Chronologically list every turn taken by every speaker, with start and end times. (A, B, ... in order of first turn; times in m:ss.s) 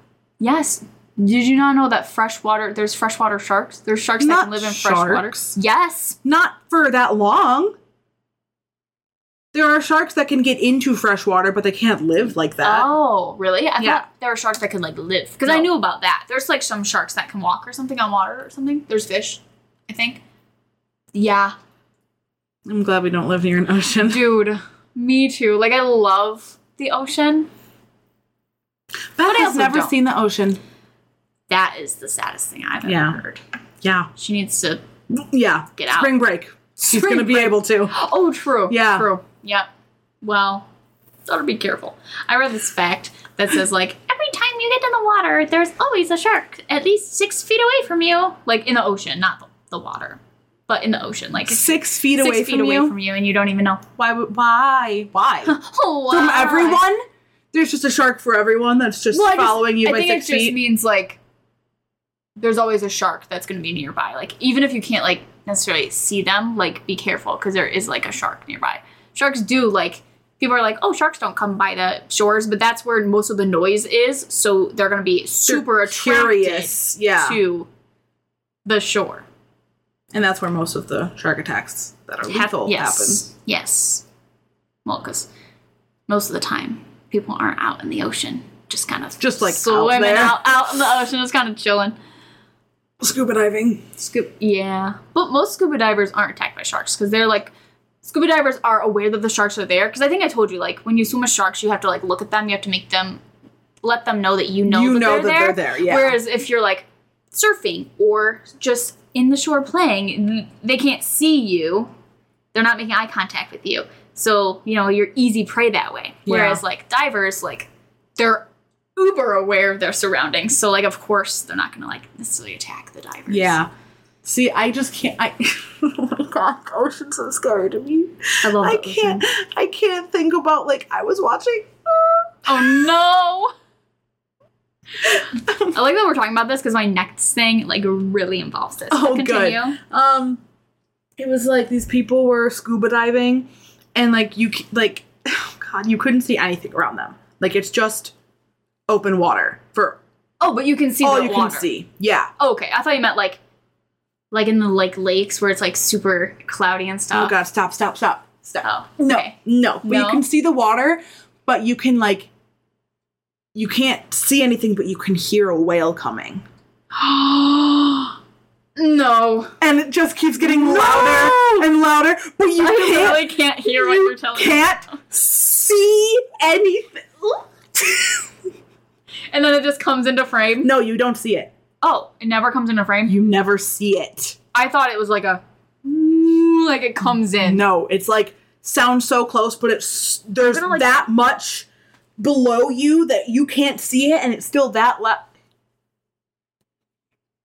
0:00.4-0:06.2 A
0:04.2-0:05.6 B
0:06.2-0:07.7 B
0:09.5-0:12.9 B
0:12.6-0:20.2 A
0:13.8-0:14.0 B
0:21.1-0:21.6 A
0:22.7-0:24.2 B
0:24.0-0:27.5 A
0:29.2-0:30.6 B
0:29.2-0:30.0 A
0:31.5-0:33.4 A
0:32.8-0:33.2 B
0:33.8-0:34.1 B
0:34.2-0:34.8 A
0:35.1-0:38.0 B
0:35.8-0:36.1 A
0:36.8-0:39.7 A
0:38.7-0:39.1 B
0:40.2-0:40.7 A
0:41.3-0:53.8 A
0:51.4-0:53.0 B
0:54.0-0:55.6 B
0:55.4-0:56.8 A
0:56.1-0:57.0 B
0:57.5-1:00.6 B
0:59.1-1:01.2 A
1:02.4-1:17.7 A
1:15.4-1:17.4 B
1:18.6-1:19.3 A
1:20.1-1:23.2 B
1:22.3-1:24.0 A
1:24.8-1:25.3 A
1:26.1-1:32.0 A
1:29.2-1:30.4 B
1:33.0-1:33.8 B
1:34.0-1:37.5 A
1:38.0-1:43.2 A
1:43.8-1:51.9 A
1:44.7-1:46.2 B
1:52.5-2:03.6 A
1:56.3-1:56.6 B
2:03.3-2:03.7 B
2:04.2-2:12.9 B
2:08.4-2:09.3 A
2:12.4-2:13.5 A
2:15.0-2:15.8 B
2:15.7-2:19.8 A
2:18.9-2:20.4 B
2:21.2-2:28.1 B
2:28.9-2:30.0 B
2:30.4-2:31.7 A
2:31.0-2:32.3 B
2:32.4-2:33.4 A
2:34.3-2:37.4 A
2:37.1-2:42.3 B
2:38.6-2:40.2 A
2:43.5-2:46.4 B
2:46.9-2:48.1 A
2:48.8-2:49.6 A
2:49.6-2:58.3 B
2:50.4-2:51.7 A
2:52.6-2:55.0 A
2:59.3-3:00.7 A
3:00.6-3:01.5 B
3:01.8-3:03.2 A
3:03.1-3:04.4 B
3:04.5-3:07.6 A
3:07.4-3:11.7 B
3:10.4-3:11.1 A
3:12.2-3:15.3 B